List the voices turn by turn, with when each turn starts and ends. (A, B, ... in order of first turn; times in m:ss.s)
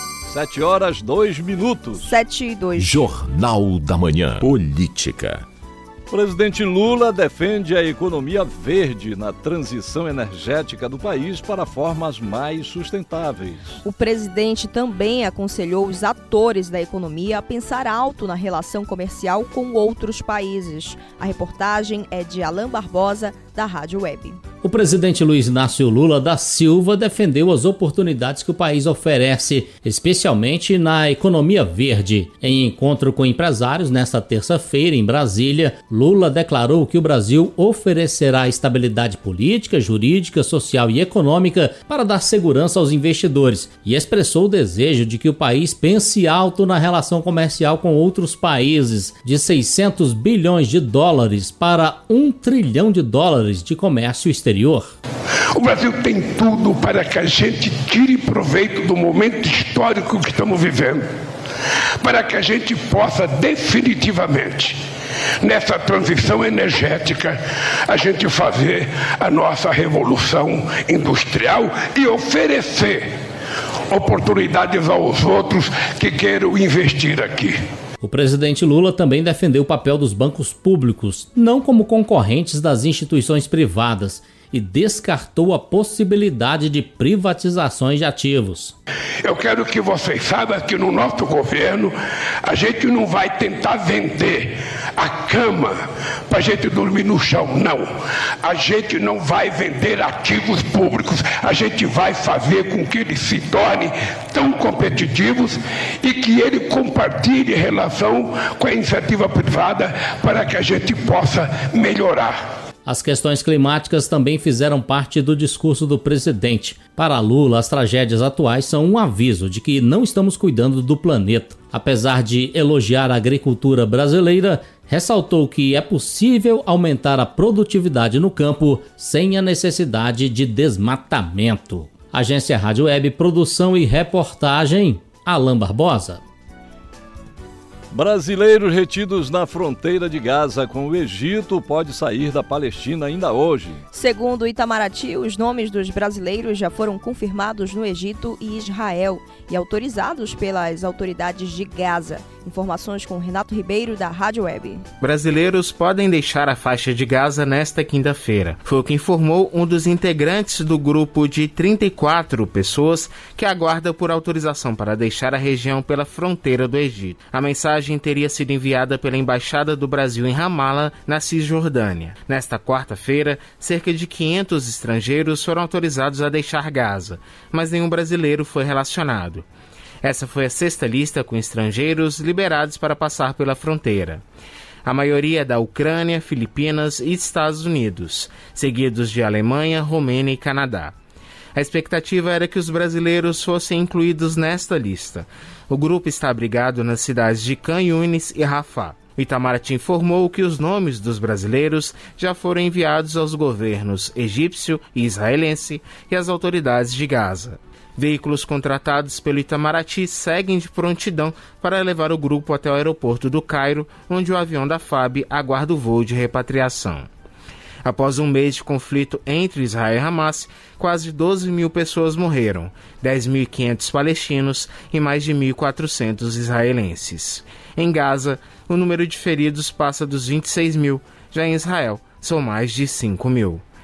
0:00.3-0:02.1 A
0:02.0-0:03.1 B
0:02.8-0:05.4 C
0:06.1-0:13.8 A
0:13.8-0:24.4 B
0:24.6-0:54.9 D
0:55.5-1:01.1 E
1:02.0-1:04.8 E
1:05.4-1:13.2 E
1:13.9-1:17.6 E
1:18.0-1:28.8 D
1:29.2-1:37.9 E
1:38.4-1:52.4 E
1:52.8-2:16.2 D
2:17.9-2:23.8 A
2:23.9-2:34.8 B
2:35.0-2:59.5 F
3:00.0-3:04.2 F
3:04.8-3:11.0 F
3:11.6-3:37.1 F
3:37.8-3:53.6 F